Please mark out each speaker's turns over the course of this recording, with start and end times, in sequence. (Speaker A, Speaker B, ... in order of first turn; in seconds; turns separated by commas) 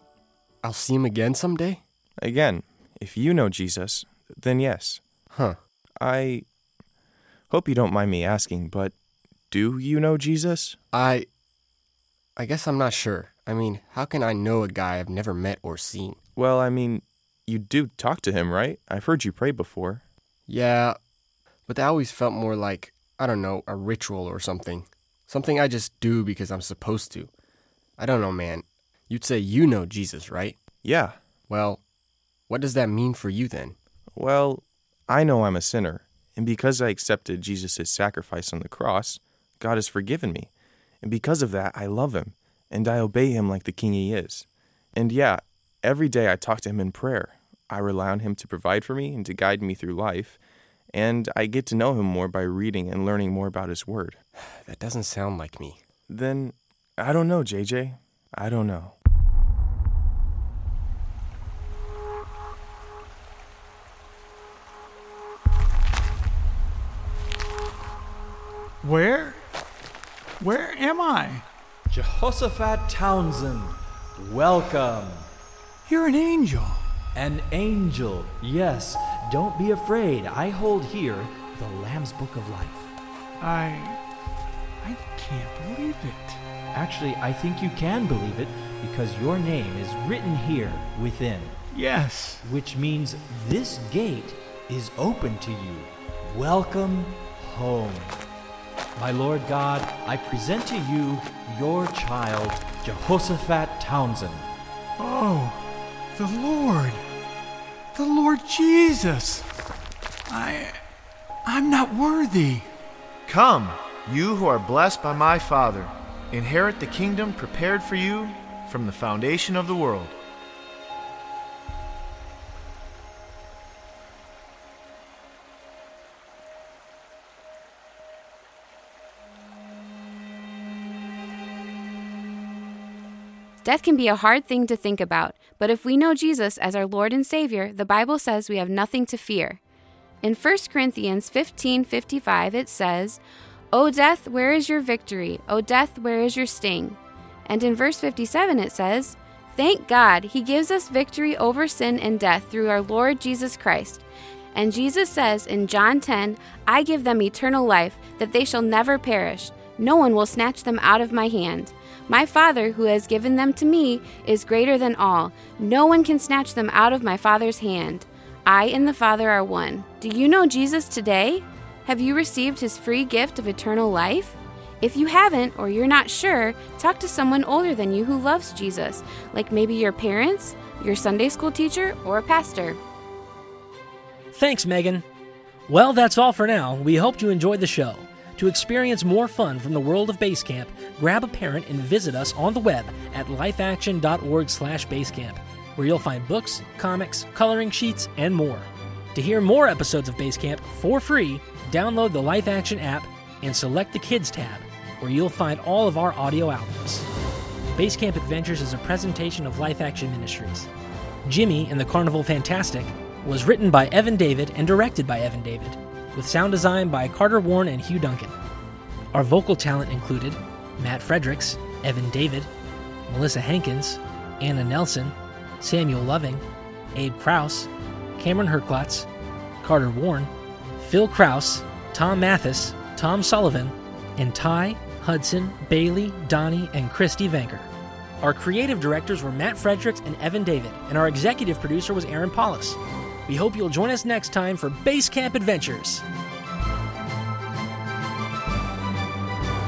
Speaker A: 0.6-1.8, Speaker B: 2.2-5.0, Speaker A: 5.3-5.6, Speaker B: 6.0-6.4, Speaker B: 7.5-8.9, Speaker B: 9.5-10.8, Speaker A: 10.9-11.3, Speaker A: 12.3-16.2, Speaker B: 16.4-20.0, Speaker A: 20.5-21.0, Speaker A: 21.7-27.3, Speaker A: 28.0-30.6, Speaker B: 30.8-31.2, Speaker A: 31.5-31.8, Speaker A: 32.5-33.8, Speaker B: 34.1-40.5, Speaker B: 41.0-50.4, Speaker B: 50.9-54.2, Speaker A: 54.4-55.8, Speaker B: 56.1-58.9, Speaker C: 68.8-69.4, Speaker C: 70.4-71.4, Speaker D: 71.9-75.3, Speaker C: 75.8-76.8, Speaker D: 77.1-82.9, Speaker C: 83.4-84.0, Speaker C: 84.8-86.4, Speaker D: 86.7-91.6, Speaker C: 91.7-92.4, Speaker D: 92.4-98.2, Speaker D: 99.0-104.5, Speaker C: 105.0-107.0, Speaker C: 107.9-109.5, Speaker C: 110.3-110.8, Speaker C: 111.5-112.7, Speaker E: 113.2-120.1, Speaker F: 133.6-139.6, Speaker F: 140.2-143.2, Speaker F: 143.7-182.8, Speaker G: 184.3-185.0, Speaker G: 185.7-207.1, Speaker G: 207.7-210.7, Speaker G: 211.2-218.3, Speaker G: 219.1-222.5, Speaker G: 223.1-226.4, Speaker G: 226.9-229.1, Speaker G: 229.6-237.7, Speaker G: 238.2-246.0